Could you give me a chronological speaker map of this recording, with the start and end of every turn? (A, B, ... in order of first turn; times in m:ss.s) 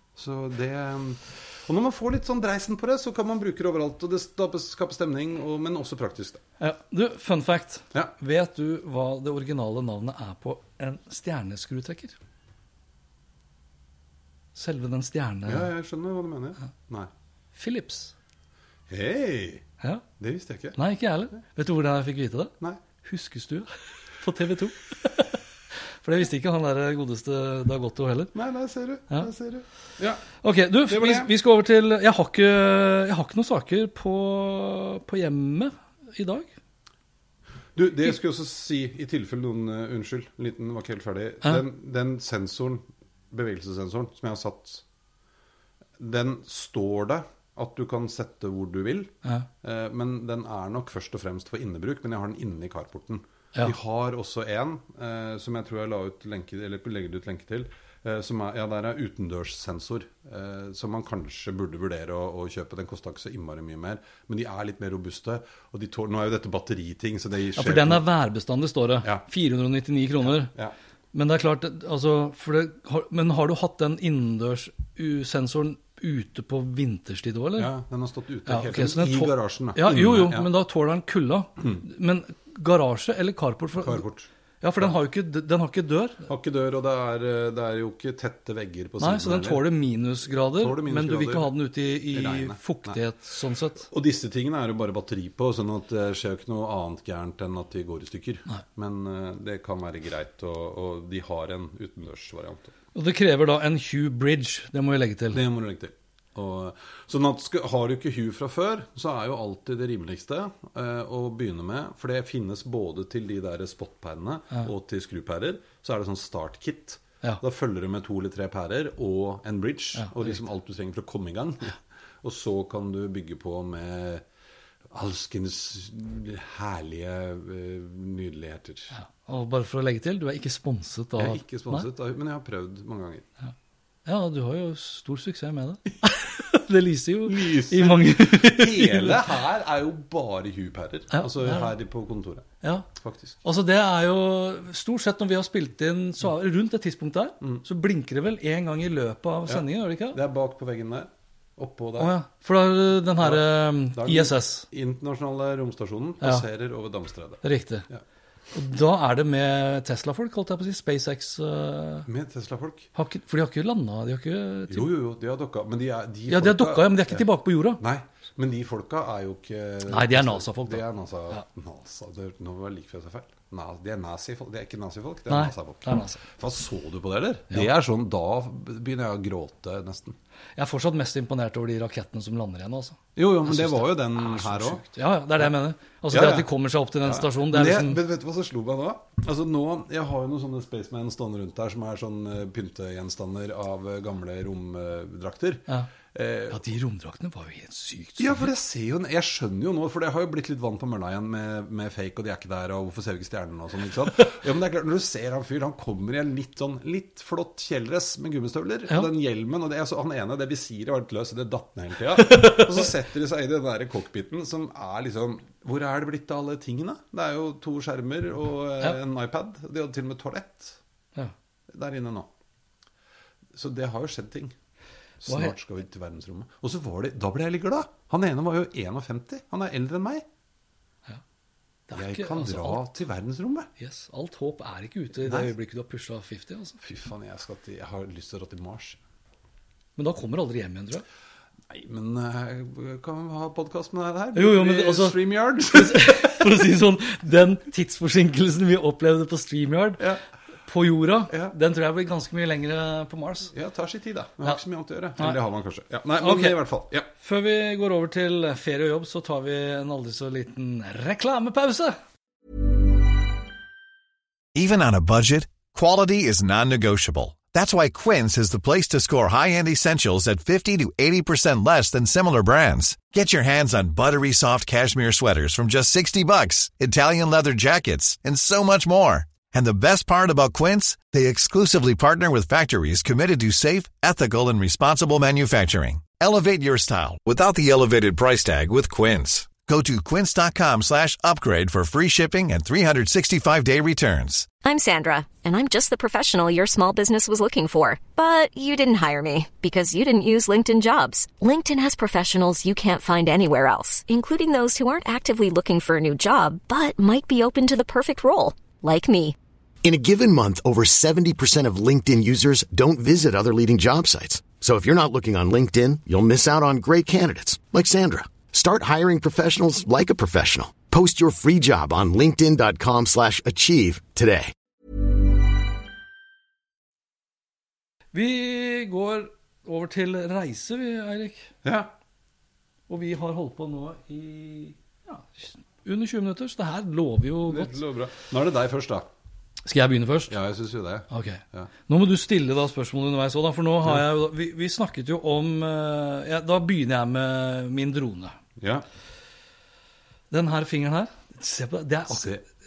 0:00.2-0:06.4 A
0:06.6-0:12.2 B
0:14.6-0:15.7 B
0:15.5-0:17.1 A
0:17.6-0:18.1 B
0:18.9-0:19.6 A
0:20.2-0:20.8 A
0:20.7-0:25.4 B
0:26.0-0:28.3 B
0:28.3-0:30.2 A
0:30.4-0:36.5 B
0:30.9-0:31.3 A
0:37.7-0:44.8 A
0:46.0-1:08.0 A
1:07.6-1:10.5 B
1:10.2-1:10.7 A
1:11.1-1:17.7 B
1:17.6-1:20.5 A
1:18.5-1:24.0 B
1:23.8-1:24.3 A
1:24.6-1:26.2 B
1:26.3-1:29.6 A
1:29.0-1:33.9 B
1:30.5-1:31.5 A
1:32.1-1:33.0 A
1:33.9-1:42.7 A
1:42.9-1:45.4 B
1:45.3-2:04.2 A
2:00.0-2:00.3 B
2:04.9-2:09.0 A
2:08.9-2:11.8 B
2:11.2-2:13.2 A
2:14.0-2:19.2 B
2:17.2-2:23.4 A
2:21.1-2:21.7 B
2:22.6-2:22.9 B
2:23.4-2:30.2 B
2:29.5-2:32.1 A
2:32.0-2:34.7 B
2:33.2-2:38.0 A
2:37.4-2:37.8 B
2:38.5-2:42.1 B
2:42.0-2:42.9 A
2:42.9-2:44.9 B
2:44.7-2:47.2 A
2:46.3-2:47.8 B
2:47.8-3:00.2 A
2:49.9-2:51.4 B
2:55.3-2:56.2 B
3:00.6-3:08.0 B
3:03.2-3:04.9 A
3:06.1-3:06.5 A
3:07.0-3:16.6 A
3:16.5-3:18.5 B
3:18.2-3:40.8 A
3:32.2-3:32.8 B
3:41.7-3:42.3 A
3:43.5-3:44.6 A
3:45.2-3:50.2 A
3:45.3-3:45.5 B
3:51.9-3:52.8 B
3:51.9-3:53.7 A
3:53.8-3:56.8 B
3:55.2-3:55.5 A
3:56.8-3:59.0 A
4:00.0-4:01.0 B
4:01.7-4:06.6 A
4:04.3-4:10.1 B
4:10.6-4:13.5 B
4:11.3-4:11.5 A
4:13.5-4:17.1 A
4:16.2-4:16.6 B
4:17.1-4:22.0 B
4:24.5-4:54.5 C
4:54.6-5:09.4 D
5:09.8-5:24.5 E
5:28.1-5:31.5 B
5:31.6-5:31.9 A
5:32.9-5:37.8 B
5:37.5-5:39.1 A
5:39.6-5:40.4 B
5:40.3-5:41.7 A
5:41.1-5:48.4 B
5:48.6-5:48.8 A
5:50.3-5:52.4 B
5:52.1-5:52.4 A